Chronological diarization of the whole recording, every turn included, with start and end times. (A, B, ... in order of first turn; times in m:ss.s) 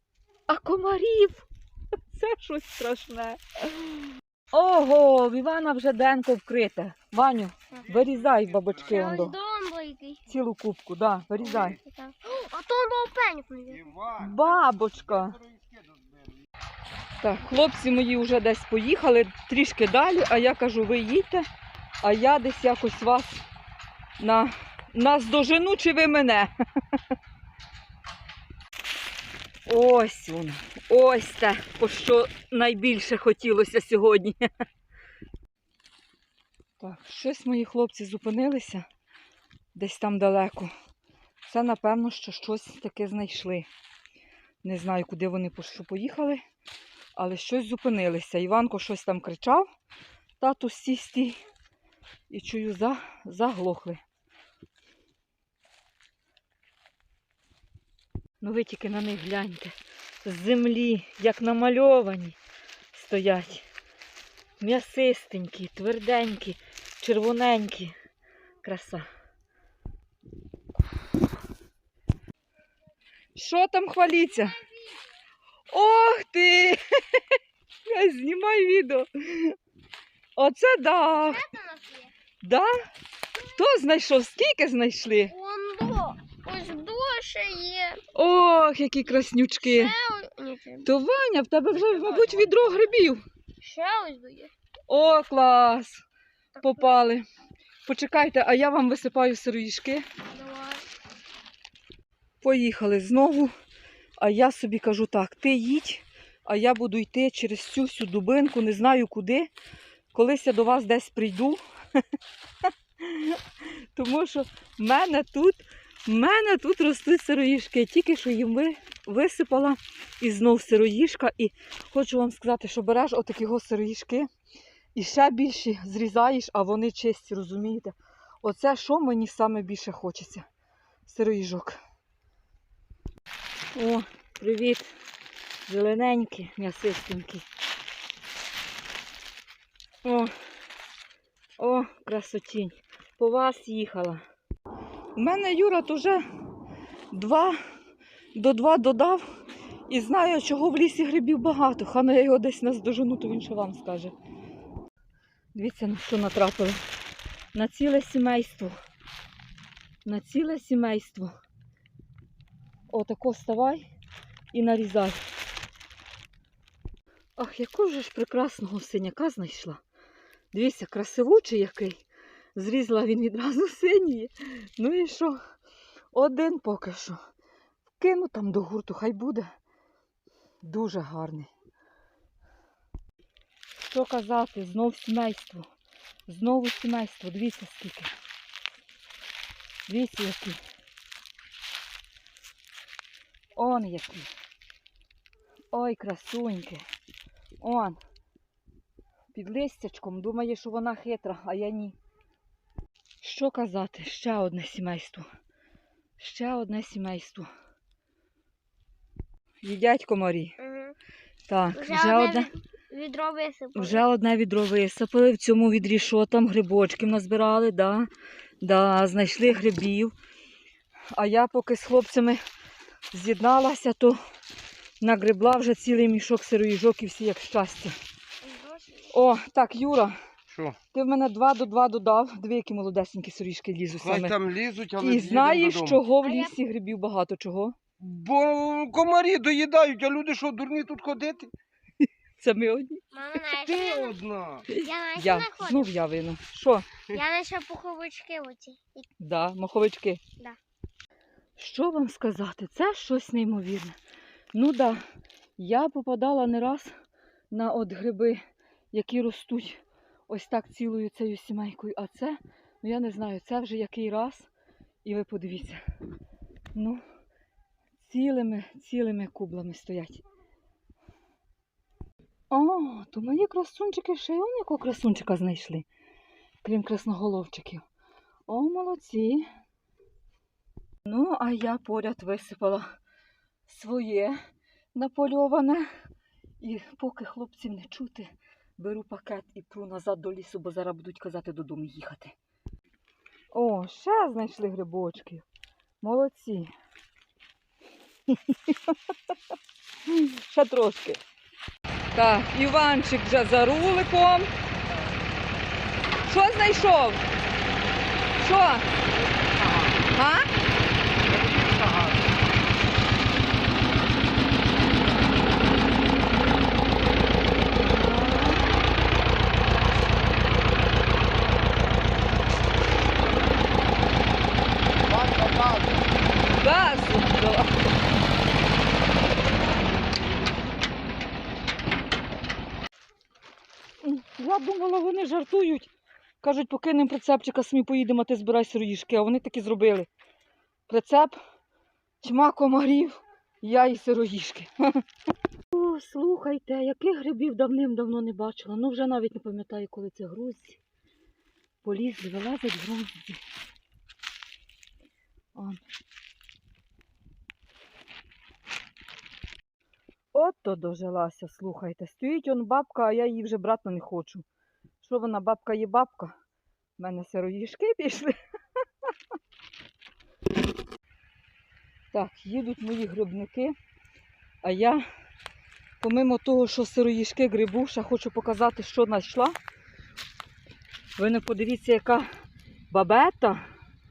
0:00.5-0:01.4 A
0:02.1-0:03.9 A
0:04.5-0:09.4 A
0:08.0-0:08.9 B
0:08.8-0:10.2 C
0:10.3-0:11.8 A
0:11.4-0:13.8 C
0:13.7-0:14.4 B
0:14.2-0:15.4 A
0:15.2-0:16.4 B
0:17.2-0:21.5 A
0:22.0-0:23.4 A
0:24.2-0:26.5 A
0:29.7-0:34.5 A
0:36.8-0:38.8 A
0:39.7-0:40.7 A
0:41.4-0:43.7 A
0:44.6-0:46.4 A
0:47.1-0:49.7 A
0:50.4-0:51.4 A
0:52.3-0:54.0 A
0:58.4-1:02.4 A
1:02.9-1:03.7 A
1:04.6-1:07.9 A
1:08.6-1:09.0 A
1:13.3-1:14.6 A
1:14.6-1:14.9 C
1:15.7-1:17.2 A
1:17.8-1:19.6 A
1:20.4-1:21.4 A
1:21.2-1:22.1 C
1:22.4-1:22.7 A
1:23.5-1:25.3 A
1:25.3-1:28.0 C
1:28.1-1:29.9 A
1:29.6-1:30.9 C
1:30.8-1:33.2 A
1:33.6-1:34.5 C
1:34.9-1:36.0 A
1:36.6-1:36.9 C
1:36.6-1:37.2 A
1:37.8-1:40.0 A
1:40.2-1:40.8 C
1:42.4-1:43.5 A
1:44.2-1:49.5 A
1:50.1-1:51.6 A
1:53.0-1:53.4 A
1:53.9-2:04.3 A
2:04.9-2:10.4 A
2:11.0-2:11.8 A
2:13.7-2:14.9 A
2:15.6-2:17.4 A
2:20.0-2:20.3 A
2:21.6-2:24.2 A
2:25.1-2:26.2 A
2:27.1-2:27.6 A
2:28.3-2:29.2 A
2:29.9-2:34.1 A
2:35.5-2:36.8 A
2:37.5-2:38.7 A
2:40.0-2:41.3 A
2:42.9-2:43.9 A
2:44.5-2:45.2 A
2:47.4-2:49.8 A
2:50.5-2:52.0 A
2:52.5-2:55.4 A
2:56.1-2:57.2 A
2:58.0-2:59.5 A
3:00.6-3:01.5 A
3:03.8-3:05.7 A
3:06.3-3:08.1 A
3:09.9-3:10.6 A
3:13.6-3:14.3 A
3:15.7-3:16.8 A
3:17.6-3:18.0 A
3:19.3-3:22.0 A
3:23.2-3:25.2 A
3:26.2-3:27.5 A
3:29.6-3:30.5 A
3:30.6-3:30.9 C
3:31.5-3:32.5 A
3:31.7-3:34.0 C
3:33.7-3:38.1 A
3:38.6-3:40.1 A
3:41.1-3:42.4 A
3:43.1-3:44.2 A
3:45.0-3:48.0 A
3:48.4-3:49.1 C
3:49.1-3:50.2 A
3:50.5-3:50.8 B
3:50.9-3:54.4 A
3:54.0-3:56.0 B
3:55.0-3:57.7 A
3:56.2-3:56.5 C
3:58.0-4:01.5 B
4:02.4-4:03.0 A
4:03.1-4:04.2 C
4:03.5-4:04.6 B
4:04.7-4:06.9 A
4:04.8-4:05.9 C
4:07.1-4:09.0 C
4:09.2-4:10.2 A
4:11.6-4:13.9 A
4:14.5-4:15.0 A
4:15.6-4:16.9 A
4:17.5-4:18.4 A
4:18.9-4:24.5 A
4:25.0-4:25.8 A
4:26.7-4:27.0 A
4:28.0-4:30.2 A
4:32.5-4:35.8 A
4:36.6-4:37.8 A
4:38.5-4:39.5 A
4:41.0-4:42.9 A
4:43.7-4:44.4 A
4:44.9-4:45.9 A
4:46.6-4:52.3 A
4:53.5-4:55.4 A
4:56.0-4:56.7 A
4:58.3-4:58.9 A
5:00.1-5:01.2 A
5:02.1-5:04.5 A
5:06.2-5:07.2 A
5:08.4-5:08.8 A
5:09.6-5:10.0 B
5:10.1-5:10.5 A
5:11.2-5:12.3 B
5:17.8-5:18.6 A
5:25.0-5:26.1 B
5:26.5-5:27.8 A
5:34.0-5:35.9 A
5:36.4-5:40.1 A
5:40.9-5:41.4 A
5:42.2-5:44.7 A
5:45.7-5:50.8 A
5:51.8-5:53.4 A
5:55.5-5:55.8 A
6:00.3-6:04.4 A
6:05.0-6:06.3 A
6:07.0-6:08.4 A
6:12.1-6:13.7 A
6:14.6-6:15.0 A
6:16.0-6:19.6 A
6:21.2-6:22.3 A
6:22.9-6:23.6 A